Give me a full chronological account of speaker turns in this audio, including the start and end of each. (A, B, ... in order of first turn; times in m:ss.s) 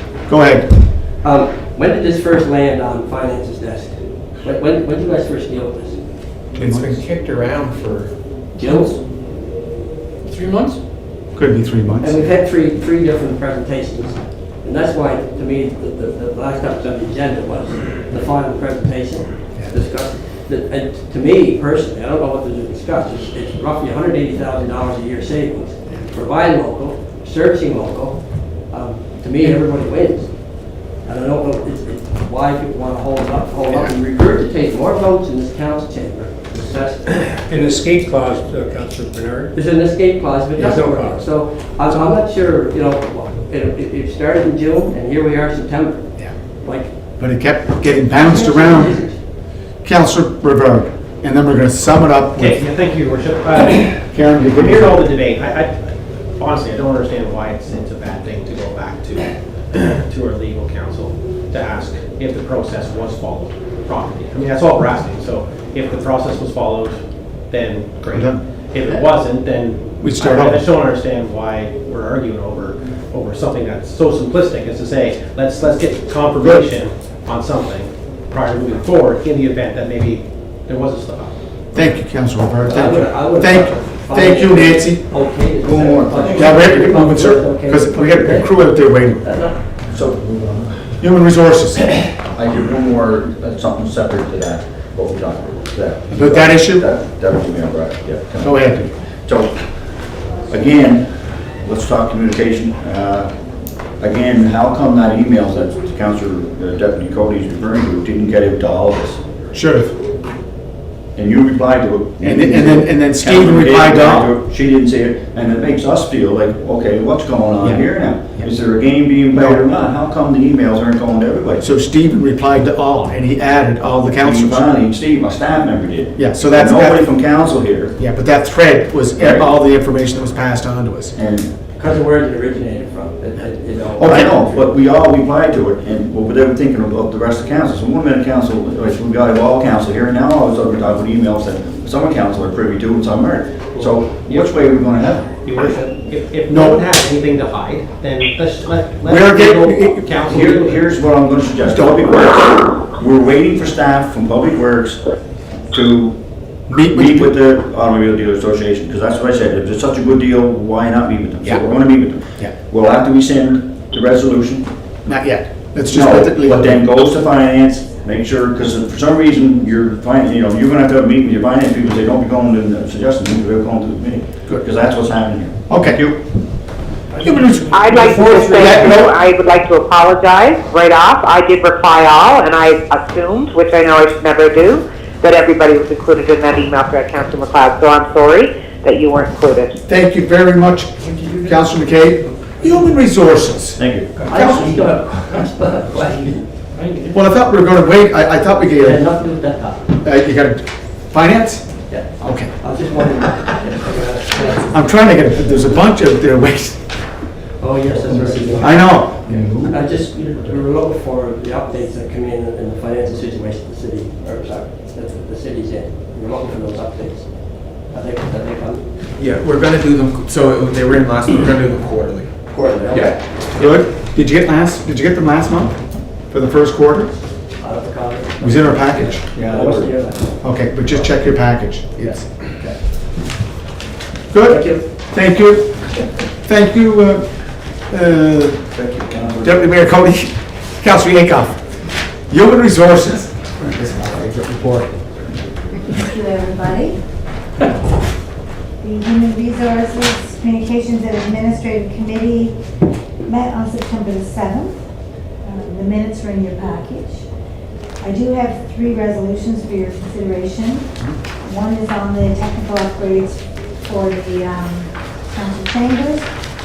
0:00.2-0:00.7 A
0:01.2-0:06.0 B
0:06.5-0:07.0 A
0:06.9-0:08.1 C
0:08.6-0:08.9 B
0:08.6-0:08.9 C
0:10.3-0:10.7 C
0:11.3-0:12.2 A
0:12.0-0:37.4 B
0:37.4-0:39.5 D
0:39.5-0:46.0 B
0:40.5-0:41.3 D
0:41.9-0:42.2 D
0:46.6-0:46.9 B
0:47.2-0:49.0 A
0:48.1-0:49.2 B
0:49.8-0:52.6 A
0:52.4-1:21.4 C
0:54.1-0:55.0 A
1:08.1-1:08.4 A
1:10.0-1:10.6 A
1:21.7-1:25.0 A
1:22.6-1:29.6 B
1:25.6-1:26.6 E
1:26.3-1:29.2 A
1:29.9-1:30.8 E
1:31.0-1:32.0 A
1:32.3-1:38.6 E
1:36.1-1:36.8 A
1:38.4-1:38.9 A
1:39.2-1:39.6 E
1:40.5-1:41.1 E
1:41.6-1:43.3 E
1:44.0-1:49.2 E
1:49.5-1:49.9 A
1:51.2-2:01.6 E
1:52.2-1:54.3 A
1:57.6-1:58.5 A
1:59.3-1:59.6 A
2:01.6-2:04.6 A
2:04.2-2:07.9 E
2:06.2-2:07.1 A
2:08.0-2:11.1 A
2:09.2-2:09.5 E
2:11.2-2:11.5 E
2:11.8-2:14.6 B
2:14.0-2:25.3 E
2:24.2-2:24.6 C
2:25.4-2:30.8 C
2:26.5-2:26.8 A
2:29.1-2:30.2 A
2:30.2-2:35.0 E
2:31.7-2:32.0 A
2:35.7-2:36.2 E
2:36.7-2:37.3 A
2:36.9-2:44.7 E
2:45.0-2:46.8 A
2:45.9-2:56.2 E
2:55.7-2:56.0 A
2:57.1-2:59.1 D
2:57.2-2:59.1 A
2:57.5-3:09.8 F
3:09.9-3:14.8 A
3:11.1-3:11.6 D
3:13.8-3:14.2 E
3:14.2-3:16.1 D
3:14.3-3:16.4 B
3:16.7-3:17.2 D
3:17.1-3:19.0 A
3:18.7-3:19.9 B
3:20.0-3:22.5 A
3:21.9-3:25.0 B
3:24.6-3:26.8 A
3:27.6-3:29.1 B
3:28.5-3:29.8 A
3:29.6-3:37.3 B
3:37.9-3:38.8 B
3:39.2-3:42.3 G
3:42.5-3:43.2 E
3:43.5-3:45.7 A
3:46.3-3:47.1 A
3:47.6-3:48.6 B
3:48.4-3:49.2 A
3:49.3-3:49.9 E
3:49.4-3:50.3 B
3:50.4-3:52.3 A
3:54.3-3:55.7 A
3:54.4-3:54.8 B
3:56.4-3:57.2 A
3:57.9-3:58.6 A
3:58.7-3:59.7 E
3:59.4-4:01.6 A
4:02.3-4:05.1 A
4:05.9-4:07.0 H
4:08.8-4:12.6 H
4:13.2-4:14.8 H
4:15.4-4:17.3 H
4:18.0-4:20.9 H
4:21.4-4:26.3 H